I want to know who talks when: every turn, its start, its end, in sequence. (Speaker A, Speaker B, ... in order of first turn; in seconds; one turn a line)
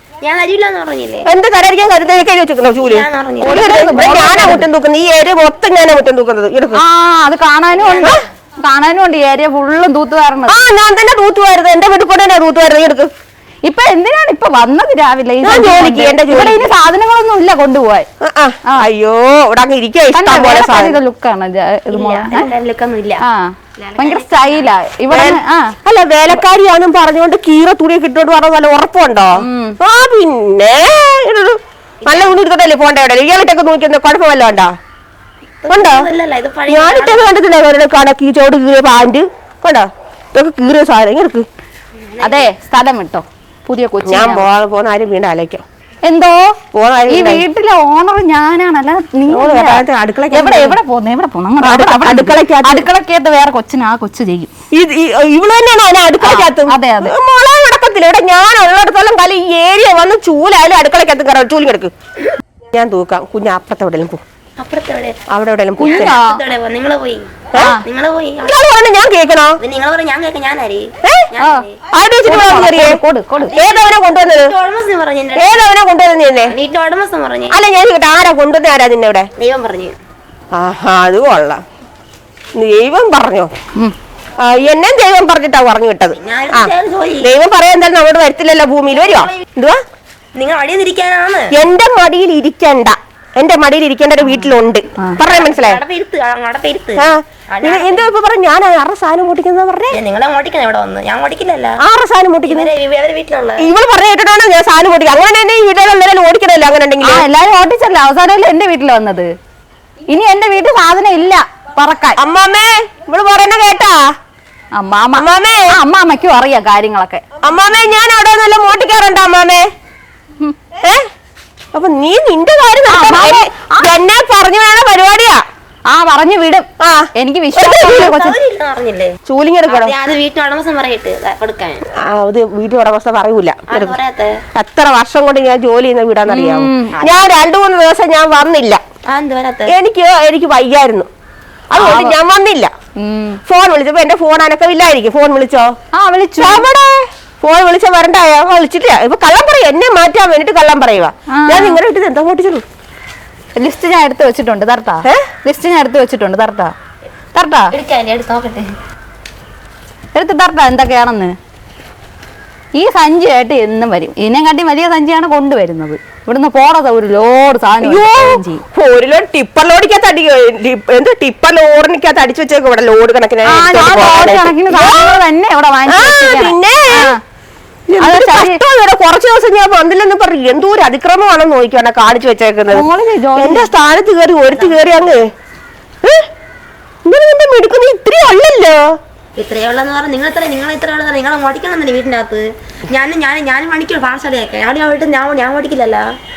Speaker A: 0.2-1.3
Speaker B: 1.2-6.8
Speaker A: 2.8-4.6
Speaker C: 3.4-4.7
Speaker C: 6.8-10.7
Speaker A: 7.8-8.2
Speaker B: 10.5-13.1
Speaker C: 13.6-18.1
Speaker B: 15.4-16.7
Speaker B: 18.2-21.0
Speaker C: 20.1-22.5
Speaker A: 21.9-23.2
Speaker C: 23.2-25.8
Speaker A: 23.8-24.7
Speaker B: 25.1-34.7
Speaker C: 29.4-29.8
Speaker A: 32.0-32.4
Speaker A: 35.6-37.3
Speaker B: 35.7-36.1
Speaker B: 36.7-41.5
Speaker A: 42.0-42.5
Speaker C: 42.2-44.5
Speaker B: 44.0-45.6
Speaker C: 46.0-54.5
Speaker B: 46.7-47.4
Speaker B: 49.3-50.8
Speaker B: 51.6-52.9
Speaker B: 54.7-61.9
Speaker C: 56.2-57.1
Speaker B: 62.7-64.2
Speaker A: 64.6-65.2
Speaker B: 65.3-66.2
Speaker C: 65.8-66.4
Speaker A: 65.8-68.5
Speaker C: 67.6-67.8
Speaker B: 68.4-69.6
Speaker A: 69.6-71.8
Speaker B: 71.9-73.0
Speaker C: 72.2-73.5
Speaker A: 73.4-75.7
Speaker B: 73.5-74.5
Speaker B: 75.3-76.5
Speaker A: 76.4-77.6
Speaker B: 77.5-79.3
Speaker A: 79.4-80.0
Speaker B: 80.5-81.6
Speaker B: 82.5-83.5
Speaker B: 84.4-89.8
Speaker A: 86.2-87.3
Speaker A: 88.9-89.5
Speaker A: 90.3-91.5
Speaker B: 91.5-95.8
Speaker C: 94.2-95.2
Speaker A: 95.2-98.1
Speaker B: 97.0-100.0
Speaker A: 99.9-101.8
Speaker B: 101.8-102.7
Speaker A: 102.5-103.7
Speaker B: 103.6-107.2
Speaker C: 107.0-109.3
Speaker C: 110.1-112.2
Speaker B: 112.2-114.0
Speaker C: 114.7-117.2
Speaker B: 115.1-115.7
Speaker B: 117.4-119.7
Speaker B: 120.8-121.1
Speaker B: 121.7-125.4
Speaker C: 122.9-123.9
Speaker C: 125.9-128.4
Speaker B: 126.8-128.2
Speaker A: 128.1-131.8
Speaker B: 129.2-129.9
Speaker B: 132.0-134.0
Speaker A: 133.7-134.4
Speaker B: 134.5-138.8
Speaker C: 136.3-137.1
Speaker A: 139.1-139.8
Speaker B: 139.7-141.1
Speaker B: 141.7-142.7
Speaker C: 141.7-142.2
Speaker C: 143.0-143.4
Speaker B: 143.5-145.7
Speaker C: 145.9-146.7
Speaker B: 146.4-152.6
Speaker C: 151.3-151.8
Speaker C: 153.6-156.7
Speaker C: 157.3-157.7
Speaker A: 157.7-158.7
Speaker C: 160.1-161.3
Speaker C: 162.8-168.6
Speaker B: 167.8-175.2
Speaker C: 173.5-177.2
Speaker B: 175.9-177.2
Speaker B: 177.9-182.8
Speaker C: 178.0-178.6
Speaker C: 182.7-183.7
Speaker B: 183.3-185.3
Speaker A: 184.5-185.2
Speaker B: 186.0-186.3
Speaker B: 187.1-189.0
Speaker A: 189.3-196.1